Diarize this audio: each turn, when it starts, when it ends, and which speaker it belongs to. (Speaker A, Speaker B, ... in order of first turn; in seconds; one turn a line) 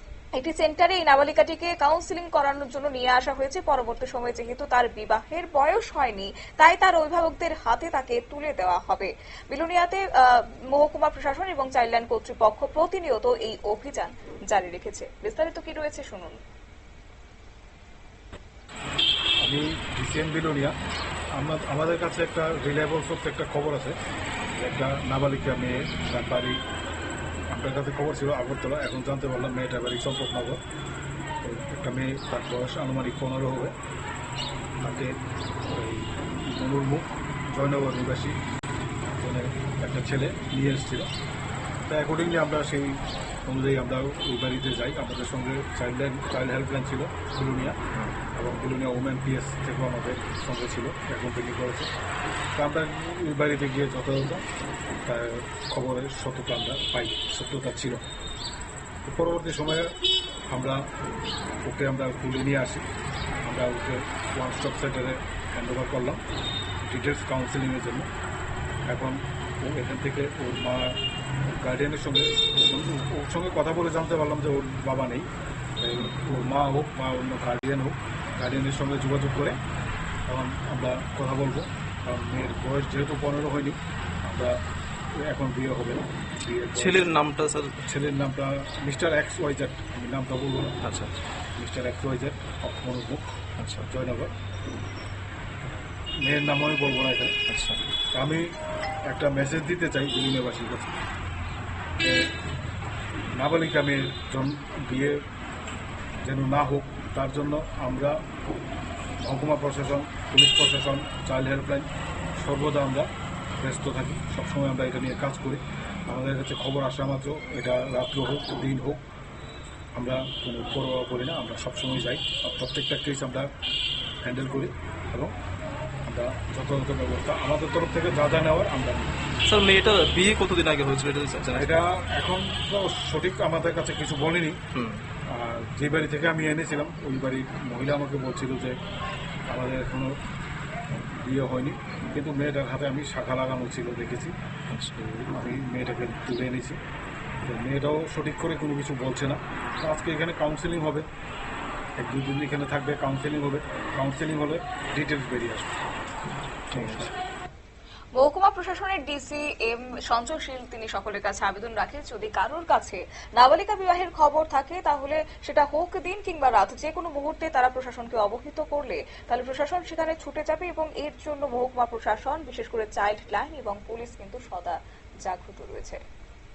Speaker A: 0.3-16.4
Speaker B: 19.4-20.8
Speaker B: 21.4-24.0
Speaker B: 24.5-26.6
Speaker B: 27.5-30.6
Speaker B: 31.4-33.7
Speaker B: 34.8-38.4
Speaker B: 39.1-41.1
Speaker B: 41.9-47.8
Speaker B: 48.3-51.9
Speaker B: 52.5-54.4
Speaker B: 55.0-58.0
Speaker B: 59.0-60.0
Speaker B: 60.5-60.8
Speaker B: 61.6-62.9
Speaker B: 63.4-66.2
Speaker B: 66.8-68.1
Speaker B: 68.9-71.0
Speaker B: 71.6-79.6
Speaker B: 80.3-84.6
Speaker B: 85.2-87.1
Speaker C: 86.7-87.8
Speaker B: 87.8-90.8
Speaker C: 90.8-91.2
Speaker B: 91.5-93.3
Speaker C: 93.6-93.9
Speaker B: 93.9-94.3
Speaker B: 96.2-97.4
Speaker C: 97.5-97.8
Speaker B: 98.1-98.5
Speaker B: 99.1-100.9
Speaker B: 103.3-105.2
Speaker B: 106.2-108.2
Speaker B: 109.2-119.0
Speaker B: 119.9-123.5
Speaker B: 124.2-125.3
Speaker B: 126.0-129.1
Speaker C: 129.5-131.8
Speaker B: 131.5-134.6
Speaker C: 134.7-135.0
Speaker B: 135.3-138.8
Speaker B: 139.5-140.2
Speaker B: 141.1-144.3
Speaker B: 144.9-146.8
Speaker B: 147.4-151.1
Speaker B: 152.0-155.8
Speaker C: 156.7-157.1
Speaker B: 156.7-157.1
Speaker A: 158.1-176.0